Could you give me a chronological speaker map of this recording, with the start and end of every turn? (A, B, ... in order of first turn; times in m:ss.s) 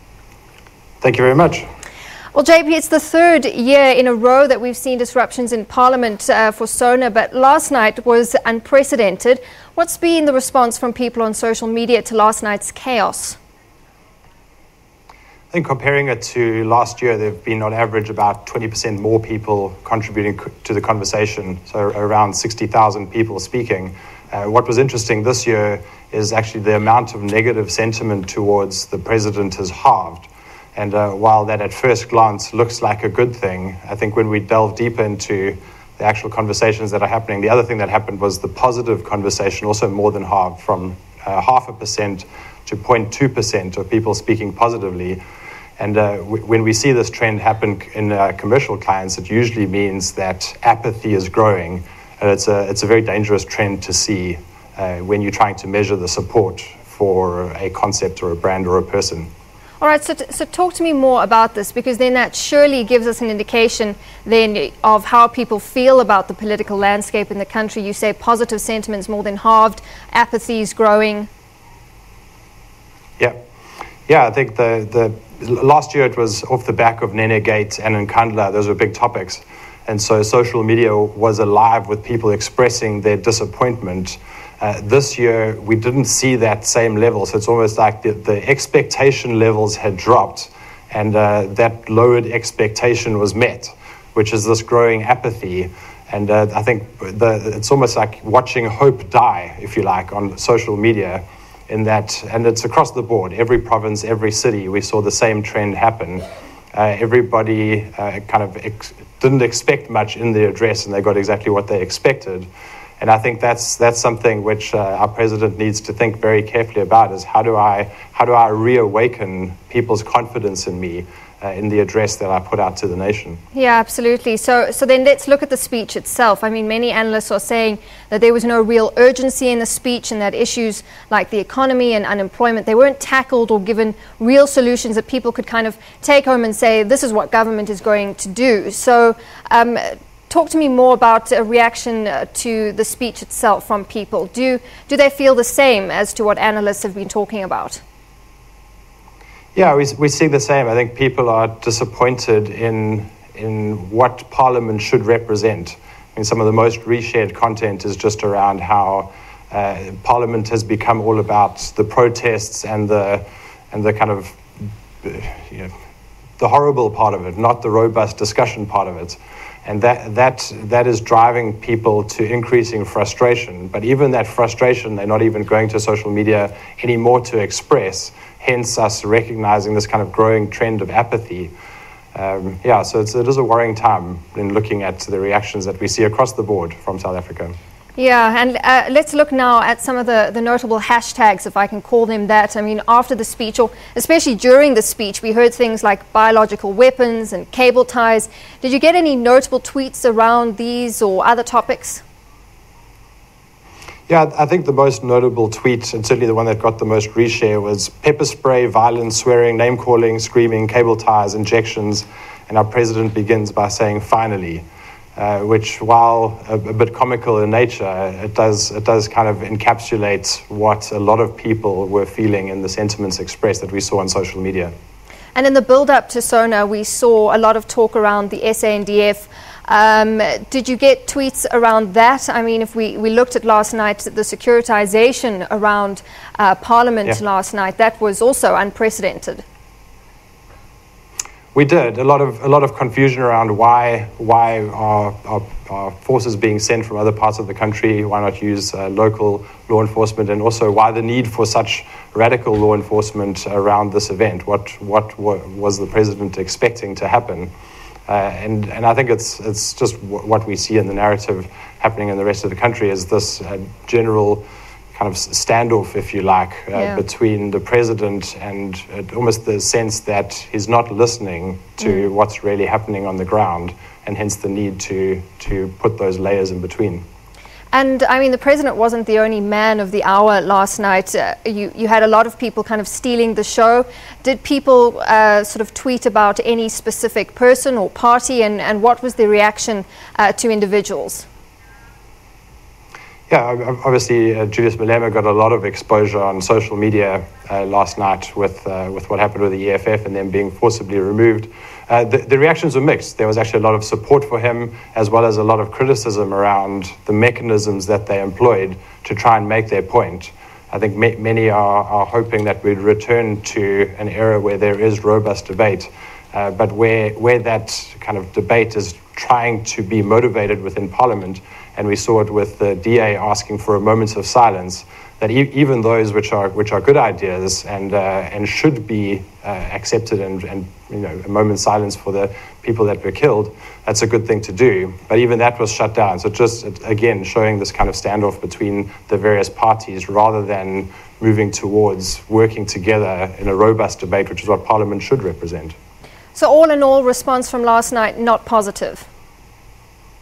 0:01.0-0:01.7 A
0:02.3-0:13.4 B
0:15.5-0:45.2 A
0:45.8-0:59.3 A
0:59.8-1:11.3 B
1:14.1-1:52.5 A
1:53.0-2:03.4 A
2:03.5-2:27.8 B
2:29.5-2:45.7 A
2:46.4-3:01.5 A
3:02.1-3:07.6 A
3:08.0-3:22.0 B
3:24.1-3:34.6 A
3:35.2-3:44.7 A
3:45.3-3:59.4 B
4:01.5-4:17.5 A
4:18.1-4:24.4 A
4:24.9-4:37.0 A
4:26.7-4:27.0 B
4:37.7-4:51.3 B
4:53.3-5:45.8 A
5:46.3-5:49.0 B